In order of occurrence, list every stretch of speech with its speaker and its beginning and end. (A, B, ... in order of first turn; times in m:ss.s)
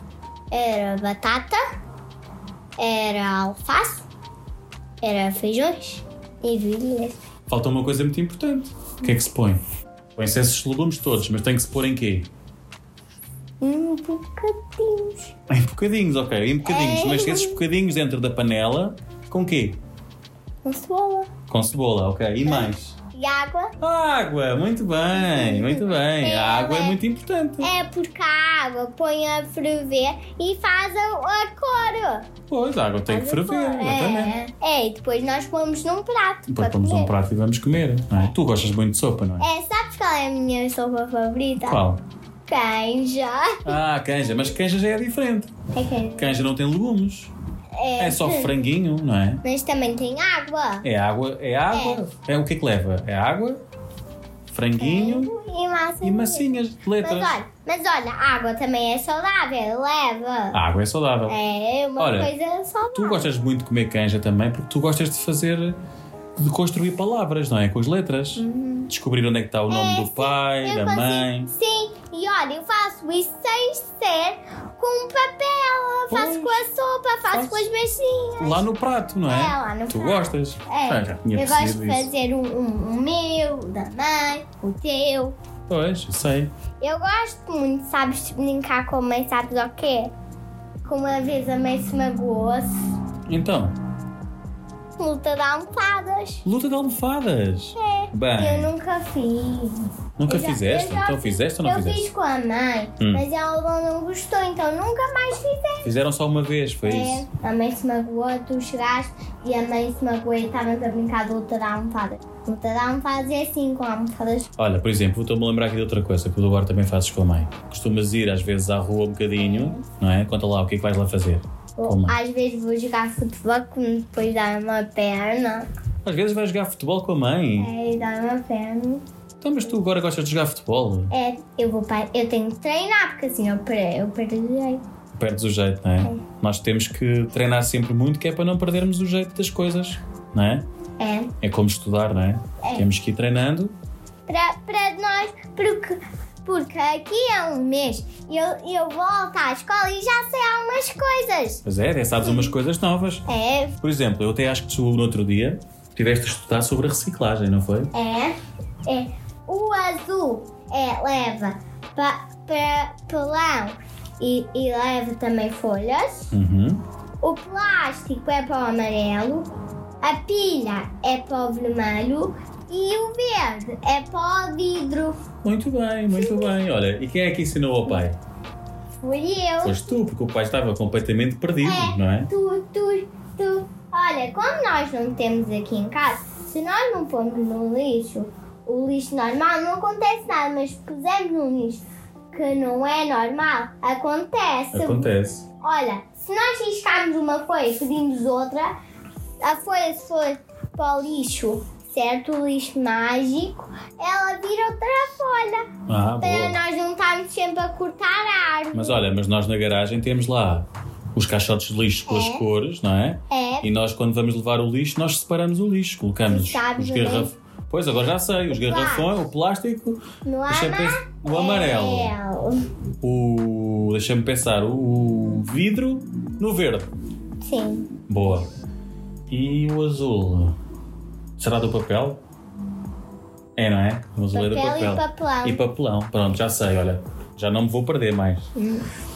0:00.5-0:01.6 A
0:02.8-0:04.0 A
0:05.0-0:07.2 A
0:07.5-0:09.6 B
0:10.2-0:12.3 B
0:13.6-0:15.3 A
0:15.5-0:19.8 B
0:16.6-0:17.6 A
0:20.6-0:21.3 A
0:21.5-0:23.0 B
0:22.4-0:23.8 A
0:23.8-0:27.7 B
0:25.1-0:27.0 A
0:27.6-0:32.3 A
0:32.5-0:34.4 B
0:33.1-0:37.1 A
0:36.5-0:39.5 B
0:39.4-0:41.8 A
0:41.6-0:42.0 B
0:42.5-0:43.8 A
0:43.6-0:45.5 B
0:45.7-0:46.5 A
0:46.2-0:47.3 B
0:47.8-0:48.7 A
0:48.0-0:49.4 B
0:49.4-0:50.9 A
0:50.8-0:53.6 B
0:51.7-0:52.0 A
0:54.5-0:55.4 B
0:54.8-1:00.6 A
0:56.0-0:57.4 B
1:00.5-1:01.4 B
1:01.3-1:03.3 A
1:02.0-1:02.3 B
1:02.9-1:05.8 B
1:06.4-1:11.5 B
1:08.4-1:08.9 A
1:09.7-1:18.6 A
1:16.1-1:16.6 B
1:17.3-1:17.7 B
1:18.4-1:22.1 B
1:19.3-1:25.4 A
1:25.7-1:26.5 B
1:26.8-1:30.1 A
1:30.8-1:32.7 A
1:33.3-1:33.8 B
1:35.0-1:36.4 A
1:36.4-1:38.7 B
1:37.8-1:45.9 A
1:40.2-1:42.1 B
1:43.0-1:43.2 B
1:45.8-1:47.3 B
1:46.8-1:54.5 A
1:54.6-2:02.2 B
1:59.4-1:59.9 A
2:01.8-2:05.7 A
2:06.0-2:07.7 B
2:07.6-2:09.0 A
2:09.4-2:11.1 B
2:11.1-2:14.8 A
2:15.2-2:20.6 B
2:21.0-2:21.3 A
2:21.4-2:23.8 B
2:22.6-2:22.9 A
2:24.3-2:31.6 A
2:31.6-2:33.3 B
2:32.2-2:32.5 A
2:33.3-2:33.8 A
2:33.8-2:37.9 B
2:37.9-2:46.3 A
2:46.3-2:46.8 B
2:47.2-2:49.5 A
2:50.0-2:55.2 A
2:55.4-2:58.2 B
2:56.2-2:56.5 A
2:59.0-2:59.9 A
2:59.6-3:02.3 B
3:01.6-3:18.8 A
3:14.7-3:15.5 B
3:19.4-3:29.0 A
3:25.9-3:26.6 B
3:28.7-3:42.2 B
3:32.1-3:32.4 A
3:33.3-3:33.7 A
3:36.3-3:37.3 A
3:38.5-3:39.2 A
3:40.2-3:42.7 A
3:43.0-3:46.9 B
3:47.4-3:47.9 A
3:48.1-3:48.5 B
3:49.3-3:50.6 B
3:51.4-3:52.2 B
3:53.6-3:58.5 B
3:54.3-3:55.6 A
3:58.6-3:58.8 A